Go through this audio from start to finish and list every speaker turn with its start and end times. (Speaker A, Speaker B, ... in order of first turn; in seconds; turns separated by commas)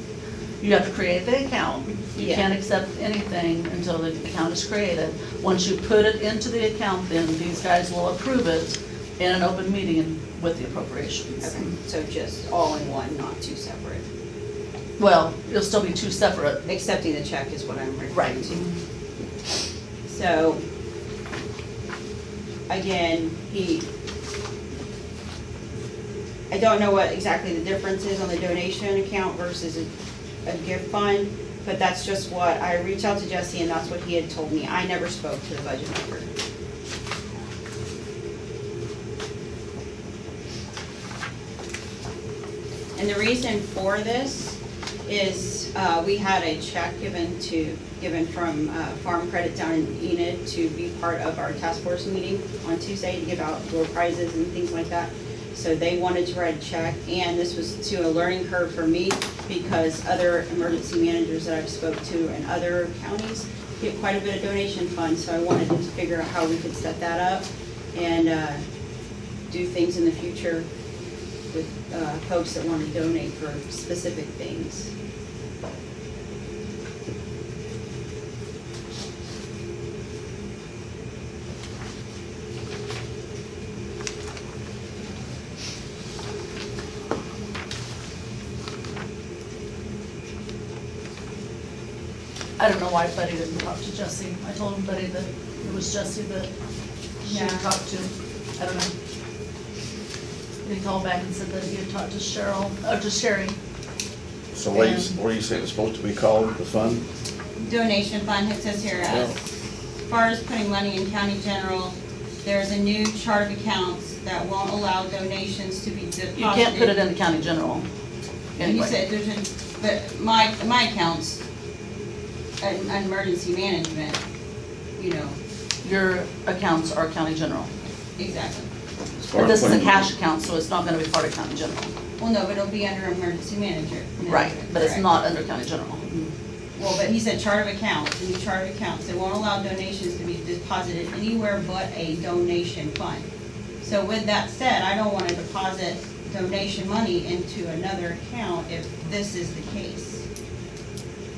Speaker A: 0.6-11.7, Speaker B: 2.2-2.5, Speaker B: 11.4-14.0, Speaker A: 15.0-16.6, Speaker B: 16.7-18.6, Speaker A: 18.1-18.7, Speaker B: 20.1-20.6, Speaker B: 22.7-23.9, Speaker B: 26.5-29.9, Speaker B: 30.4-36.3, Speaker B: 43.0-68.6, Speaker B: 69.5-70.7, Speaker B: 71.5-74.9, Speaker A: 92.6-96.5, Speaker A: 97.2-98.9, Speaker B: 97.3-97.7, Speaker A: 100.7-103.6, Speaker C: 104.5-107.0, Speaker A: 104.7-105.2, Speaker B: 107.6-109.4, Speaker C: 109.1-109.3, Speaker B: 110.1-117.0, Speaker A: 116.4-117.9, Speaker A: 118.6-119.0, Speaker B: 118.6-121.4, Speaker B: 122.6-124.2, Speaker B: 125.0-125.4, Speaker A: 125.8-127.7, Speaker B: 128.2-128.7, Speaker C: 129.2-130.1, Speaker A: 129.3-131.9, Speaker B: 132.2-135.1, Speaker A: 134.2-136.3, Speaker B: 136.8-143.3, Speaker B: 143.8-150.2